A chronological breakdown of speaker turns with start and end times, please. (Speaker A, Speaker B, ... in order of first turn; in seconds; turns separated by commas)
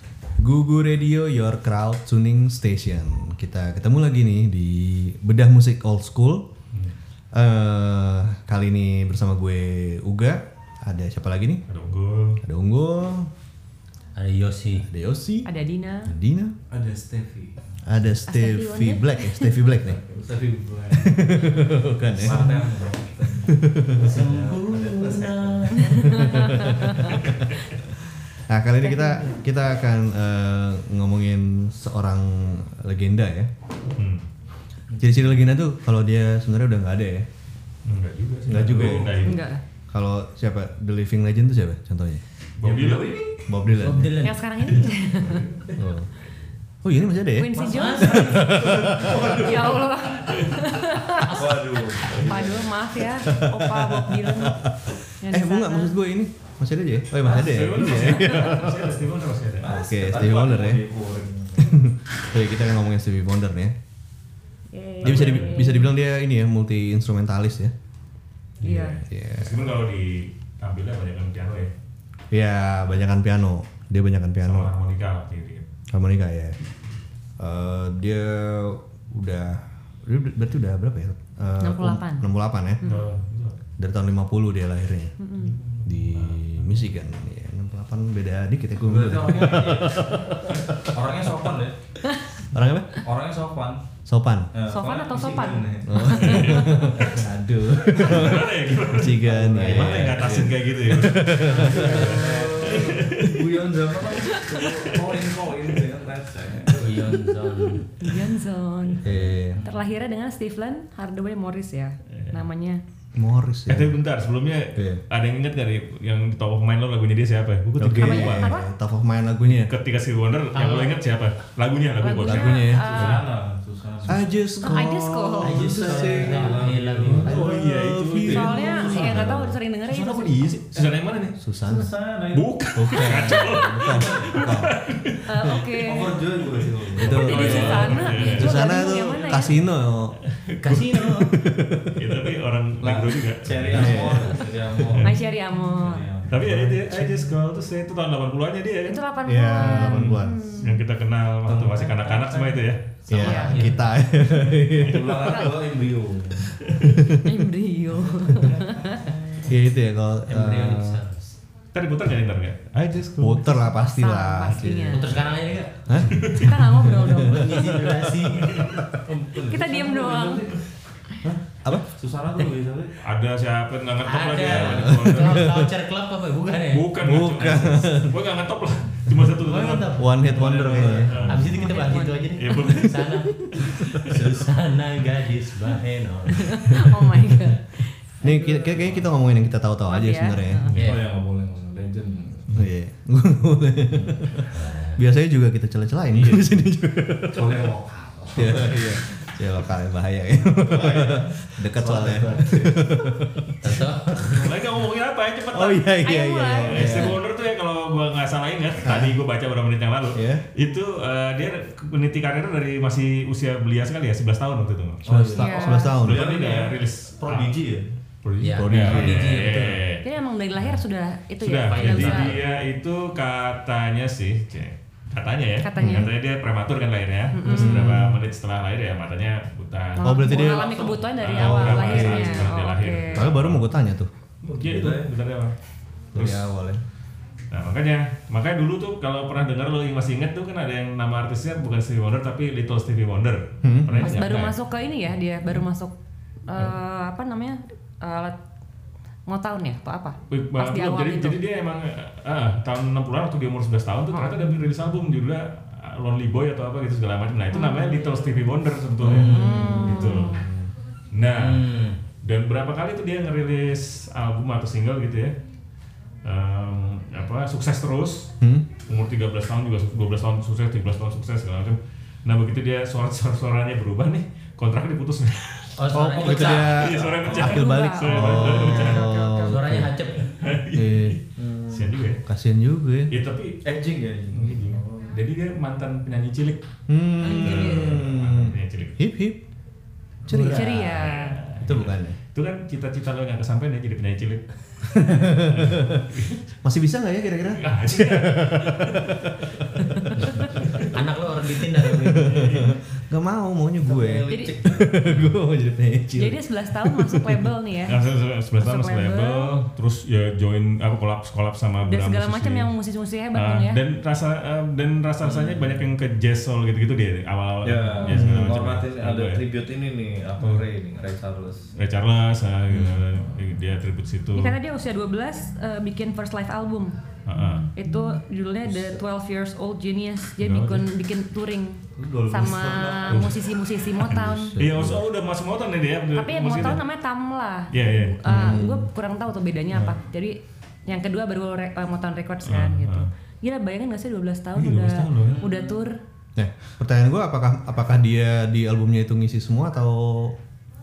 Speaker A: 0.4-6.5, Speaker A: 7.3-11.6, Speaker B: 11.7-12.4, Speaker A: 12.4-13.3, Speaker C: 14.2-14.9, Speaker A: 14.9-15.5, Speaker D: 15.4-16.1, Speaker A: 16.1-16.6, Speaker E: 16.7-17.8, Speaker A: 17.8-20.0, Speaker D: 18.3-19.7, Speaker E: 19.8-27.6, Speaker A: 20.9-22.7, Speaker A: 23.4-24.2, Speaker C: 24.0-26.1, Speaker D: 25.8-27.1, Speaker A: 26.0-27.6, Speaker A: 28.1-33.5, Speaker D: 28.8-29.4, Speaker B: 34.0-34.2, Speaker A: 35.0-37.3, Speaker B: 37.9-39.5, Speaker A: 38.5-39.1, Speaker E: 38.7-39.2, Speaker D: 39.2-39.6, Speaker A: 39.9-42.2, Speaker B: 42.6-43.2, Speaker E: 42.6-43.5, Speaker A: 43.5-44.1, Speaker C: 43.8-44.4, Speaker D: 44.2-45.5, Speaker B: 44.7-45.6, Speaker A: 45.8-46.1, Speaker A: 46.8-49.4, Speaker D: 47.3-48.5, Speaker C: 47.5-48.7, Speaker E: 48.2-50.0, Speaker D: 49.3-54.6, Speaker E: 51.3-52.8, Speaker A: 53.2-59.0, Speaker D: 55.2-55.9, Speaker B: 57.2-59.7, Speaker A: 59.6-60.8, Speaker E: 59.6-61.8, Speaker A: 61.6-63.8, Speaker D: 64.7-65.9, Speaker A: 65.0-67.7, Speaker B: 65.0-65.6, Speaker D: 68.6-69.0, Speaker B: 68.6-71.7, Speaker A: 68.7-69.6, Speaker A: 72.3-74.7, Speaker B: 74.5-75.6, Speaker A: 75.9-76.6, Speaker A: 77.4-82.8, Speaker D: 81.6-82.3, Speaker D: 82.8-83.1, Speaker B: 82.8-83.6, Speaker A: 83.8-85.1, Speaker D: 85.2-85.6, Speaker B: 85.4-86.8, Speaker A: 85.8-91.0, Speaker E: 88.8-90.4, Speaker E: 90.9-91.8, Speaker A: 92.5-93.0, Speaker E: 93.0-93.8, Speaker A: 94.1-94.5, Speaker E: 94.5-96.6, Speaker D: 94.7-96.8, Speaker A: 95.9-102.3, Speaker B: 96.2-103.3, Speaker E: 99.2-100.1, Speaker E: 101.5-107.3, Speaker D: 104.3-104.7, Speaker C: 106.7-107.9, Speaker D: 108.0-109.0, Speaker A: 109.0-109.6, Speaker D: 109.6-112.8, Speaker B: 112.1-112.4, Speaker A: 113.2-114.0, Speaker B: 113.7-118.5, Speaker A: 114.8-115.0, Speaker A: 117.8-119.7, Speaker D: 117.9-118.7, Speaker B: 119.5-123.2, Speaker C: 120.5-121.0, Speaker D: 122.0-123.2, Speaker A: 122.3-123.0, Speaker E: 122.8-124.3, Speaker A: 124.0-129.6, Speaker D: 124.6-125.8, Speaker C: 125.4-127.4, Speaker E: 125.6-127.6, Speaker B: 127.2-129.2, Speaker D: 128.2-130.6, Speaker B: 129.9-131.4, Speaker A: 131.4-131.9, Speaker E: 131.7-132.5, Speaker B: 132.3-135.6, Speaker A: 132.8-134.8, Speaker D: 133.0-133.9, Speaker D: 135.3-136.2, Speaker E: 135.8-138.3, Speaker B: 136.4-138.6, Speaker A: 137.0-140.2, Speaker D: 137.1-139.6, Speaker C: 138.2-138.4, Speaker B: 140.3-141.2, Speaker C: 140.6-141.4, Speaker A: 141.1-142.2, Speaker B: 141.9-144.3, Speaker E: 142.8-146.4, Speaker A: 143.7-144.4, Speaker B: 144.9-145.2, Speaker D: 145.0-146.1, Speaker B: 146.3-149.0, Speaker A: 146.3-147.3, Speaker D: 148.9-150.8, Speaker A: 149.3-150.5, Speaker B: 149.6-153.4, Speaker E: 151.5-152.6, Speaker A: 153.1-155.4, Speaker D: 153.2-153.7, Speaker C: 153.2-153.9, Speaker E: 154.7-156.7, Speaker B: 155.0-155.3, Speaker D: 155.3-155.6, Speaker B: 156.7-157.0, Speaker A: 157.0-157.4, Speaker D: 157.2-159.1, Speaker E: 157.9-159.6, Speaker A: 159.5-161.0, Speaker C: 160.3-161.4, Speaker B: 161.7-163.4, Speaker A: 163.2-165.3, Speaker D: 163.4-165.2, Speaker C: 164.9-165.8, Speaker A: 165.9-168.9, Speaker B: 166.1-166.5, Speaker D: 166.3-167.8, Speaker C: 167.2-168.8, Speaker E: 169.0-170.6, Speaker D: 169.5-170.5, Speaker A: 171.2-171.9, Speaker E: 171.8-173.0, Speaker B: 173.0-175.6, Speaker C: 174.0-176.9, Speaker A: 174.5-175.7, Speaker B: 176.7-180.2, Speaker A: 177.0-178.2, Speaker C: 179.4-186.8, Speaker A: 179.9-181.4, Speaker E: 180.4-181.1, Speaker B: 180.7-181.8, Speaker D: 181.5-182.6, Speaker B: 182.4-183.1, Speaker B: 183.7-184.2, Speaker D: 186.4-188.2, Speaker A: 188.2-190.7, Speaker E: 188.2-189.1, Speaker D: 189.9-190.8, Speaker B: 190.7-190.9, Speaker C: 190.8-191.0, Speaker E: 190.8-192.5, Speaker A: 192.6-197.6, Speaker E: 193.9-194.5, Speaker C: 194.5-195.0, Speaker E: 197.3-199.0, Speaker A: 198.3-203.5, Speaker E: 200.5-203.2, Speaker C: 203.6-204.4, Speaker B: 204.4-205.9, Speaker A: 205.5-207.2, Speaker D: 206.0-207.2, Speaker B: 206.6-215.1, Speaker A: 208.8-209.2, Speaker A: 210.1-210.5, Speaker E: 215.1-217.9, Speaker A: 215.1-216.3, Speaker D: 215.4-216.0, Speaker B: 216.0-217.6, Speaker B: 218.2-220.1, Speaker C: 218.4-219.8, Speaker A: 218.6-219.5, Speaker D: 220.0-222.4, Speaker B: 221.4-233.7, Speaker C: 221.7-222.4, Speaker D: 225.6-226.1, Speaker A: 225.8-226.1, Speaker D: 227.3-227.9, Speaker A: 227.5-228.2, Speaker D: 230.0-233.3, Speaker A: 230.0-230.8, Speaker A: 231.3-232.6, Speaker A: 233.1-234.1, Speaker B: 234.4-235.6, Speaker E: 234.5-235.1, Speaker B: 236.1-236.5, Speaker A: 236.1-236.8, Speaker B: 237.5-244.6, Speaker A: 243.6-244.1, Speaker D: 244.0-245.9, Speaker D: 246.5-248.4, Speaker D: 249.3-251.4, Speaker B: 250.3-260.4, Speaker D: 257.5-258.4, Speaker A: 259.0-260.7, Speaker C: 259.1-259.7, Speaker D: 259.2-260.5, Speaker B: 261.1-261.7, Speaker C: 261.4-262.0, Speaker B: 262.2-265.3, Speaker B: 266.2-279.1, Speaker A: 268.4-268.7, Speaker C: 275.8-276.9, Speaker A: 275.9-279.9, Speaker D: 277.3-279.6, Speaker C: 279.4-280.4, Speaker B: 280.3-282.2, Speaker A: 280.7-281.2, Speaker E: 281.4-282.0, Speaker A: 282.2-283.1, Speaker B: 283.1-283.6, Speaker E: 283.6-285.1, Speaker B: 284.3-286.6, Speaker A: 286.9-289.4, Speaker D: 287.2-288.0, Speaker B: 287.3-289.0, Speaker A: 290.3-292.2, Speaker D: 290.3-291.4, Speaker B: 290.8-296.4, Speaker A: 294.9-296.1, Speaker A: 296.6-299.5, Speaker B: 297.6-299.7, Speaker C: 300.2-302.5, Speaker B: 300.6-300.9, Speaker A: 301.9-307.4, Speaker B: 302.2-302.8, Speaker E: 303.8-305.0, Speaker D: 304.3-304.5, Speaker D: 306.2-308.0, Speaker B: 307.9-312.7, Speaker D: 308.6-309.6, Speaker D: 311.9-313.8, Speaker B: 313.3-319.4, Speaker E: 315.2-315.9, Speaker E: 317.6-321.7, Speaker A: 318.1-318.6, Speaker B: 320.4-320.6, Speaker B: 321.8-324.6, Speaker A: 322.7-323.0, Speaker D: 324.4-327.0, Speaker B: 327.3-327.7, Speaker D: 327.7-334.6, Speaker B: 330.4-330.9, Speaker E: 332.0-333.4, Speaker B: 333.1-333.4, Speaker A: 334.0-335.1, Speaker B: 334.6-336.8, Speaker D: 336.1-346.0, Speaker B: 337.7-338.2, Speaker A: 338.2-338.9, Speaker B: 342.4-343.1, Speaker B: 344.6-345.4, Speaker E: 345.2-345.8, Speaker A: 346.4-350.4